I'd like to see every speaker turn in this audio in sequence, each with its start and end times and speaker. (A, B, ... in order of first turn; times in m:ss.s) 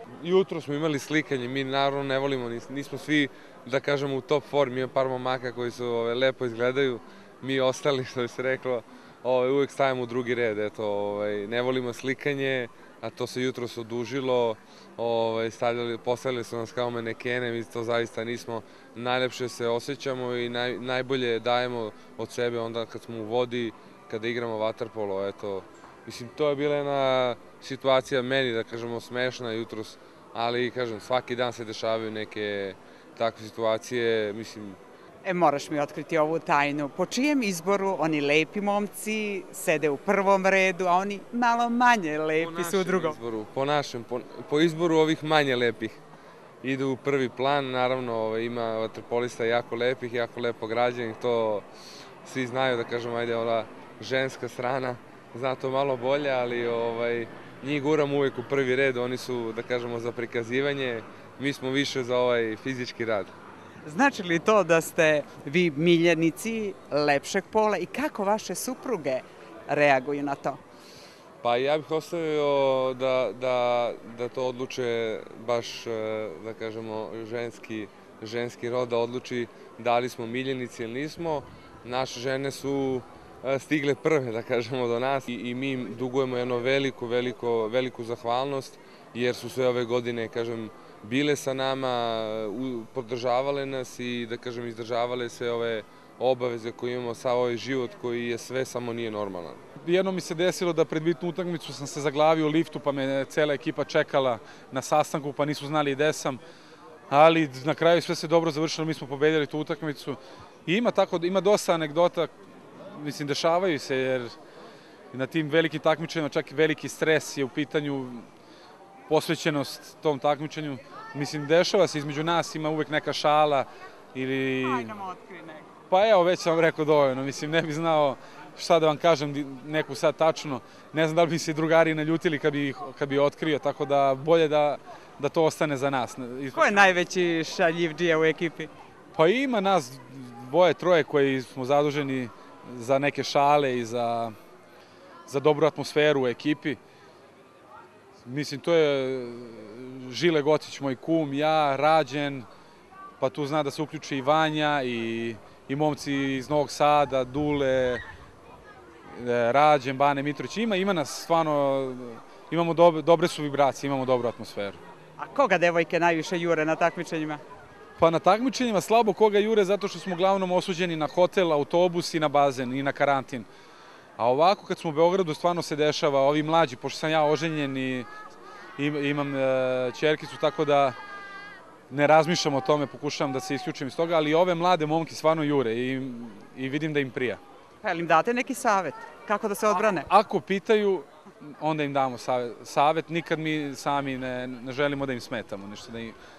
0:00.2-0:34.8 A
0:35.2-0:43.2 B
0:42.4-0:46.0 A
0:46.6-0:51.7 A
0:52.2-1:03.3 A
1:03.8-1:10.6 B
1:11.4-1:39.6 A
1:39.8-1:46.4 C
1:47.1-1:52.3 C
1:52.9-1:54.4 C
1:55.1-1:58.3 C
1:59.1-2:04.9 C
2:04.6-2:05.7 B
2:05.9-2:16.9 C
2:16.6-2:18.7 B
2:19.2-2:24.3 C
2:25.3-2:26.8 C
2:28.2-2:32.5 C
2:33.2-2:38.0 C
2:39.1-2:44.8 C
2:45.2-2:47.4 B
2:48.0-2:53.5 C
2:54.2-2:58.1 C
2:58.8-3:01.0 C
3:01.9-3:07.4 C
3:07.8-3:10.1 B
3:09.9-3:16.2 C